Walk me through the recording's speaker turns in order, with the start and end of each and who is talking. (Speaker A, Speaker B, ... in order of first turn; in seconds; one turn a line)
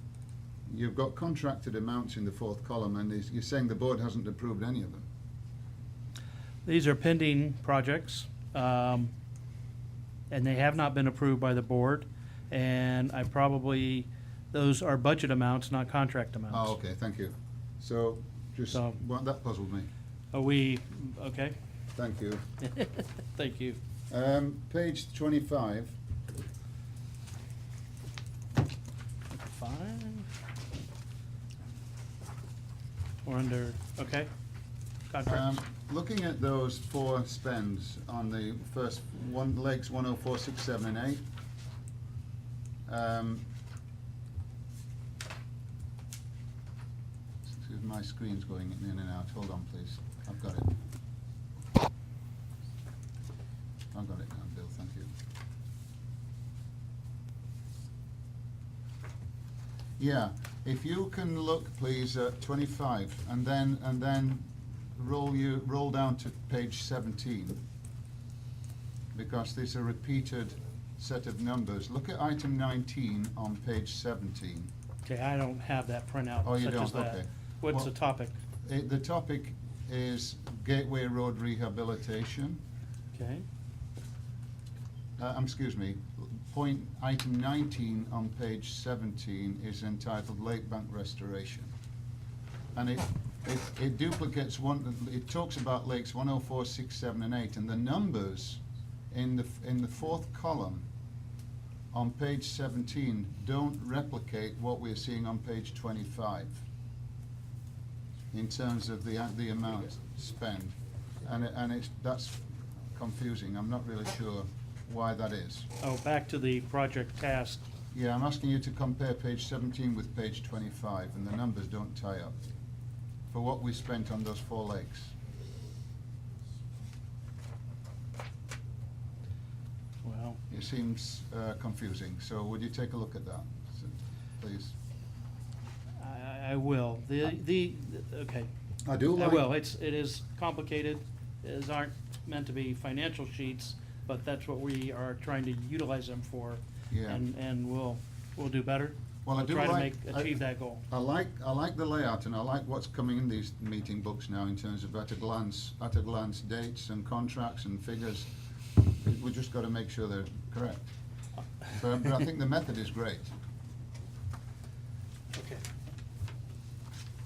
Speaker A: 0.7-5.0
Speaker B: 6.7-9.1
Speaker B: 10.3-16.8
Speaker A: 16.5-19.9
Speaker B: 18.7-19.0
Speaker B: 20.3-21.6
Speaker A: 22.0-22.4
Speaker B: 22.6-23.8
Speaker A: 24.1-26.0
Speaker B: 29.3-30.3
Speaker B: 33.2-34.3
Speaker B: 35.1-35.6
Speaker A: 35.2-41.2
Speaker A: 42.9-43.5
Speaker A: 47.5-50.7
Speaker A: 53.9-55.1
Speaker A: 60.0-67.6
Speaker A: 69.1-74.7
Speaker B: 75.0-78.3
Speaker A: 76.5-77.9
Speaker A: 78.7-82.6
Speaker B: 83.1-83.5
Speaker A: 85.2-91.7
Speaker A: 92.8-100.9
Speaker A: 101.9-106.6
Speaker A: 108.3-112.4
Speaker A: 112.9-115.7
Speaker B: 115.8-117.6
Speaker A: 117.9-122.3
Speaker A: 123.3-125.2
Speaker B: 130.0-130.4
Speaker A: 130.5-134.8
Speaker B: 136.0-138.5
Speaker A: 138.8-139.5
Speaker B: 139.2-150.8
Speaker A: 146.9-147.2
Speaker A: 149.2-150.3
Speaker A: 150.9-158.3
Speaker A: 159.0-160.9
Speaker A: 161.7-163.3